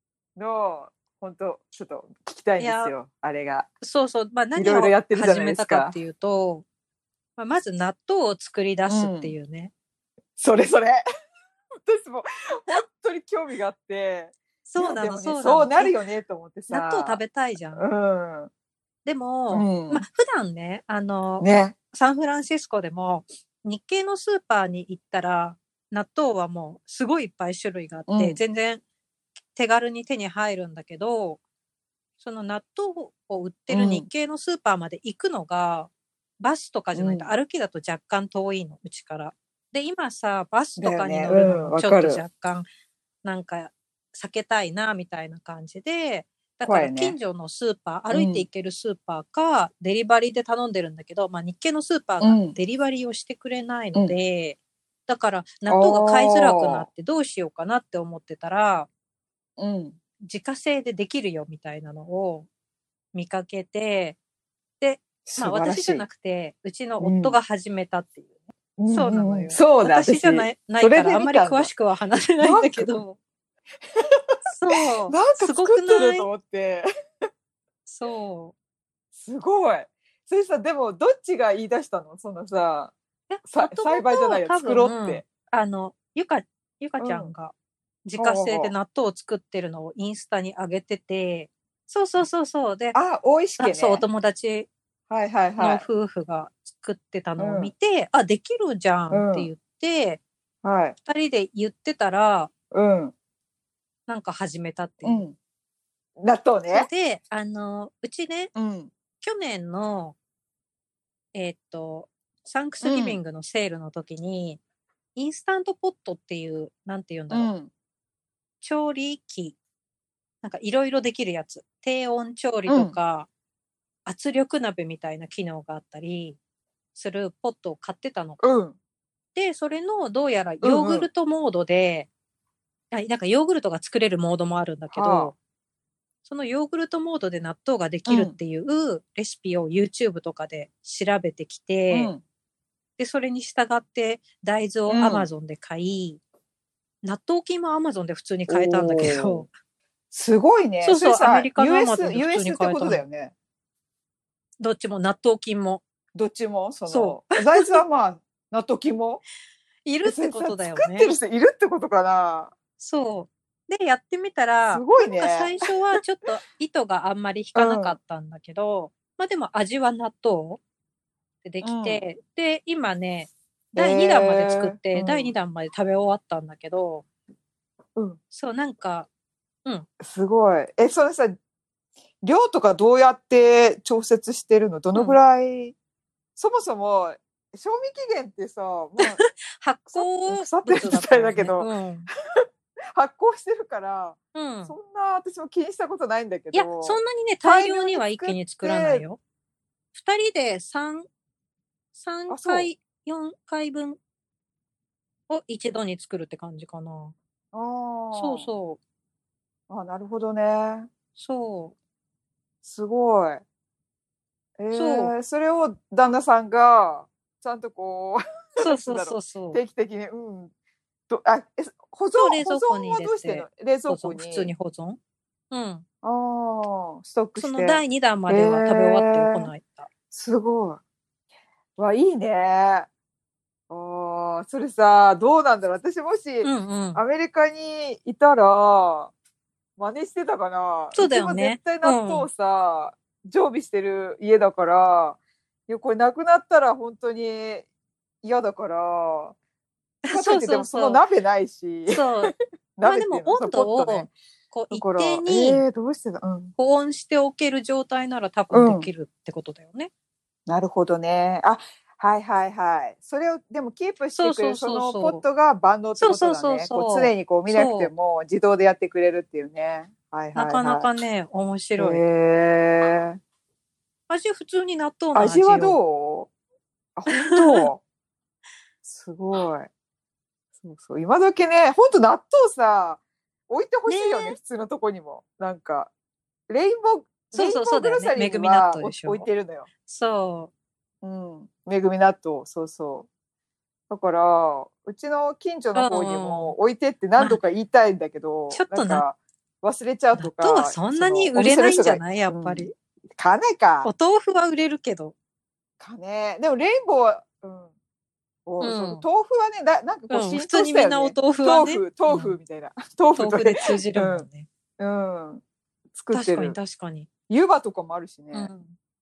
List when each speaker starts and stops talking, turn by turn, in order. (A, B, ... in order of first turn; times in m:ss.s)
0:00.4-0:03.7 A
0:02.6-0:02.9 B
0:03.8-0:06.6 B
0:04.6-0:06.0 A
0:07.4-0:09.7 B
0:08.9-0:09.4 A
0:10.4-0:11.0 A
0:11.9-0:17.2 A
0:14.7-0:16.0 B
0:16.7-0:17.9 B
0:17.8-0:18.5 A
0:19.0-0:28.8 B
0:19.5-0:20.0 A
0:21.4-0:21.8 A
0:28.1-0:28.4 A
0:29.5-0:31.4 B
0:32.2-0:42.7 B
0:33.7-0:34.1 A
0:37.0-0:37.3 A
0:40.8-0:42.2 A
0:43.2-0:58.9 B
0:46.6-0:47.2 A
0:48.1-0:48.5 A
0:52.2-0:52.6 A
0:55.7-0:56.9 A
0:59.6-1:00.0 A
1:00.2-1:02.5 B
1:03.1-1:04.2 B
1:04.8-1:08.3 B
1:05.2-1:06.0 A
1:07.0-1:07.4 A
1:08.8-1:11.7 A
1:08.9-1:13.2 B
1:12.4-1:12.9 A
1:14.5-1:16.3 B
1:14.7-1:16.9 A
1:17.9-1:18.6 B
1:19.2-1:22.9 A
1:23.3-1:27.5 B
1:23.4-1:25.2 A
1:27.0-1:27.3 A
1:28.0-1:33.0 B
1:28.2-1:28.7 A
1:32.9-1:34.0 A
1:33.6-1:34.7 B
1:35.1-1:35.8 A
1:35.6-1:40.2 B
1:37.4-1:37.7 A
1:39.1-1:39.5 A
1:40.6-1:41.0 A
1:41.1-1:42.5 B
1:42.7-1:43.1 A
1:44.1-1:45.2 B
1:45.0-1:45.4 A
1:46.2-1:46.9 A
1:46.7-1:48.5 B
1:48.6-1:48.9 A
1:49.2-1:50.2 B
1:51.3-1:54.6 B
1:52.8-1:53.2 A
1:55.2-1:57.5 B
1:57.3-1:57.7 A
1:58.6-1:59.6 B
2:00.4-2:03.3 B
2:02.7-2:03.0 A
2:04.1-2:06.4 B
2:07.0-2:08.4 B
2:08.4-2:08.8 A
2:09.4-2:12.1 B
2:10.6-2:11.1 A
2:12.9-2:15.4 B
2:14.9-2:15.3 A
2:16.2-2:22.1 B
2:18.1-2:18.4 A
2:21.9-2:22.2 A
2:23.0-2:26.2 B
2:24.9-2:25.3 A
2:27.0-2:29.5 B
2:28.5-2:29.5 A
2:30.1-2:33.3 A
2:30.8-2:33.0 B
2:34.6-2:35.8 B
2:36.1-2:39.2 A
2:36.9-2:37.8 B
2:39.8-2:41.2 B
2:40.0-2:42.5 A
2:42.8-2:50.6 B
2:44.7-2:45.6 A
2:47.6-2:48.0 A
2:51.4-2:57.0 B
2:51.6-2:52.0 A
2:53.8-2:55.3 A
2:58.3-2:59.1 B
3:00.0-3:01.4 A
3:02.2-3:05.8 A
3:06.4-3:09.2 A
3:09.0-3:12.1 B
3:09.9-3:11.7 A
3:12.9-3:19.0 A
3:14.3-3:14.8 B
3:16.5-3:19.2 B
3:19.9-3:21.1 B
3:21.9-3:24.0 B
3:22.3-3:22.7 A
3:25.3-3:27.2 B
3:27.5-3:28.5 A
3:28.1-3:28.8 B
3:29.7-3:30.9 A
3:31.2-3:31.8 B
3:32.6-3:33.4 A
3:34.6-3:40.5 A
3:34.7-3:35.1 B
3:38.6-3:39.6 B
3:41.1-3:44.5 A
3:42.2-3:45.0 B
3:45.5-3:45.9 B
3:46.0-3:49.5 A
3:47.4-3:49.9 B
3:50.1-3:50.8 A
3:51.8-3:52.9 A
3:53.7-3:59.1 A
3:56.4-3:57.0 B
3:59.8-4:07.7 A
4:01.0-4:02.3 B
4:08.2-4:09.4 A
4:10.0-4:11.0 B
4:10.1-4:14.1 A
4:11.9-4:15.6 B
4:14.7-4:16.5 A
4:16.6-4:19.9 B
4:18.5-4:18.9 A
4:20.5-4:30.9 A
4:24.2-4:25.2 B
4:26.0-4:27.9 B
4:30.4-4:32.0 B
4:31.8-4:33.2 A
4:34.1-4:35.8 B
4:35.1-4:36.3 A
4:37.0-4:37.8 A
4:37.2-4:37.7 B
4:38.8-4:39.7 A
4:40.6-4:45.9 A
4:43.9-4:44.4 B
4:46.5-4:49.7 A
4:47.3-4:49.3 B
4:49.8-4:50.5 B
4:51.0-4:53.1 A
4:53.9-5:03.9 A
4:55.8-4:56.6 B
4:58.5-4:59.0 B
5:00.2-5:02.7 B
5:03.8-5:05.1 B
5:05.8-5:07.7 A
5:08.5-5:14.3 A
5:08.6-5:09.0 B
5:10.1-5:12.4 B
5:13.2-5:14.5 B
5:14.8-5:15.4 A
5:16.0-5:16.6 A
5:16.1-5:17.1 B
5:17.3-5:18.5 A
5:18.3-5:18.8 B